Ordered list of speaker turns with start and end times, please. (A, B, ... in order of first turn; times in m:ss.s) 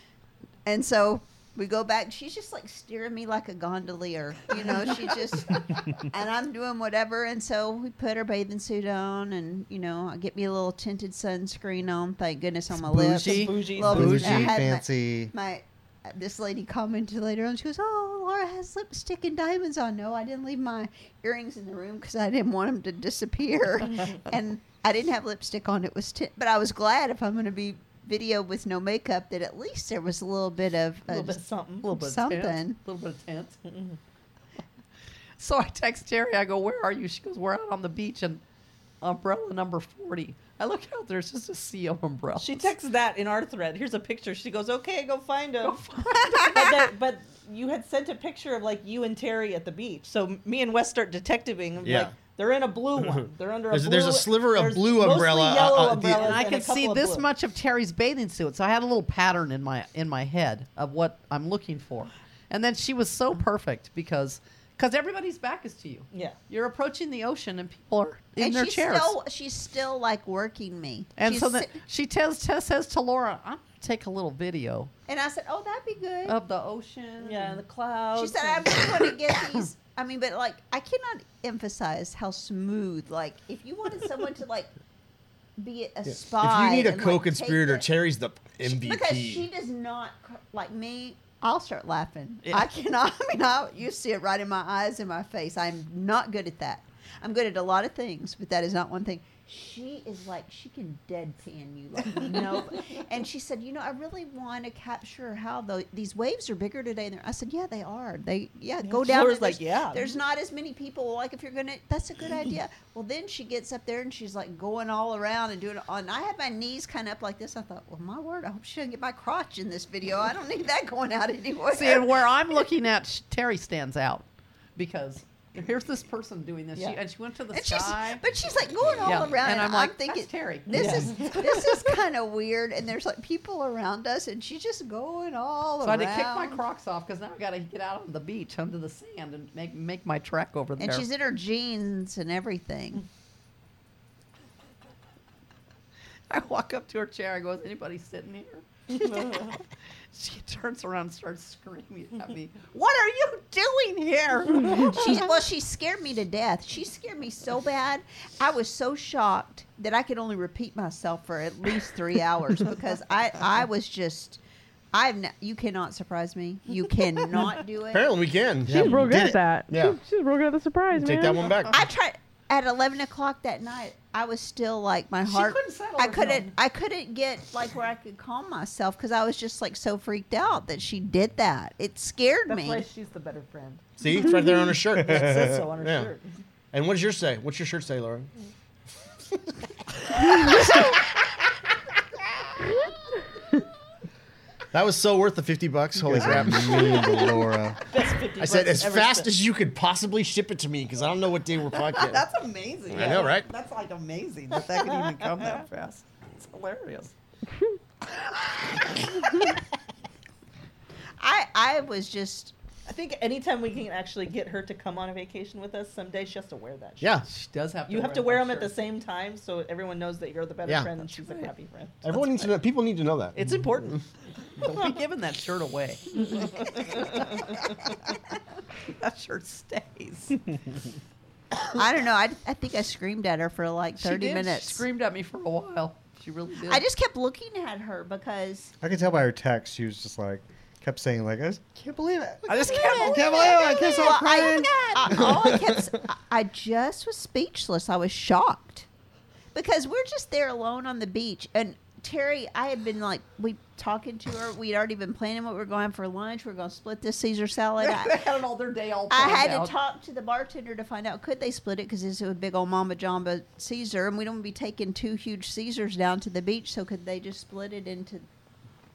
0:00.6-0:32.8 A
0:12.8-0:14.6 B
0:13.2-0:14.0 C
0:13.8-0:15.3 D
0:31.1-0:31.8 C
0:31.8-0:33.6 B
0:33.6-0:34.0 C
0:35.4-0:38.4 B
0:39.0-0:42.7 B
0:42.4-0:45.8 C
0:45.6-0:46.8 B
0:46.4-0:57.2 C
0:51.8-0:52.1 E
0:53.0-0:56.4 E
0:56.2-1:09.2 B
1:06.1-1:06.4 C
1:08.4-1:11.7 A
1:11.2-1:14.9 B
1:15.1-1:16.4 A
1:16.2-1:17.6 B
1:17.2-1:18.9 C
1:18.1-1:24.7 A
1:25.6-1:27.9 A
1:26.1-1:29.4 E
1:28.6-2:02.2 A
1:42.2-1:42.4 C
1:48.8-1:50.2 C
2:01.7-2:08.2 B
2:07.5-2:16.6 A
2:09.0-2:11.3 B
2:10.7-2:11.6 C
2:15.8-2:21.0 B
2:20.8-2:23.0 A
2:26.3-2:29.6 B
2:29.0-2:29.5 C
2:30.1-2:35.0 B
2:34.7-2:44.4 A
2:44.9-2:48.1 A
2:47.9-2:50.0 E
2:48.7-2:51.5 F
2:50.9-2:51.8 E
2:51.7-3:02.9 A
2:55.2-2:56.5 B
3:02.5-3:03.8 C
3:04.0-3:06.1 E
3:05.0-3:06.4 C
3:06.7-3:08.3 E
3:10.3-3:10.8 E
3:14.7-3:17.2 E
3:16.0-3:17.8 D
3:17.9-3:19.3 C
3:18.4-3:22.2 E
3:21.9-3:27.1 B
3:22.9-3:23.4 E
3:24.8-3:25.6 C
3:31.2-3:32.5 A
3:32.8-3:37.2 C
3:37.0-3:37.2 E
3:37.3-3:38.8 B
3:37.9-3:42.4 C
3:41.2-3:41.5 B
3:42.0-3:44.0 E
3:43.3-3:44.0 C
3:44.6-3:47.5 B
3:46.4-3:47.5 C
3:48.8-3:50.4 B
3:51.7-3:54.8 A
3:54.0-3:56.8 B
3:56.6-3:58.7 A
3:58.8-4:05.8 D
4:02.5-4:03.5 B
4:02.7-4:08.9 A
4:09.5-4:18.2 A
4:17.8-4:19.7 B
4:19.1-4:28.2 A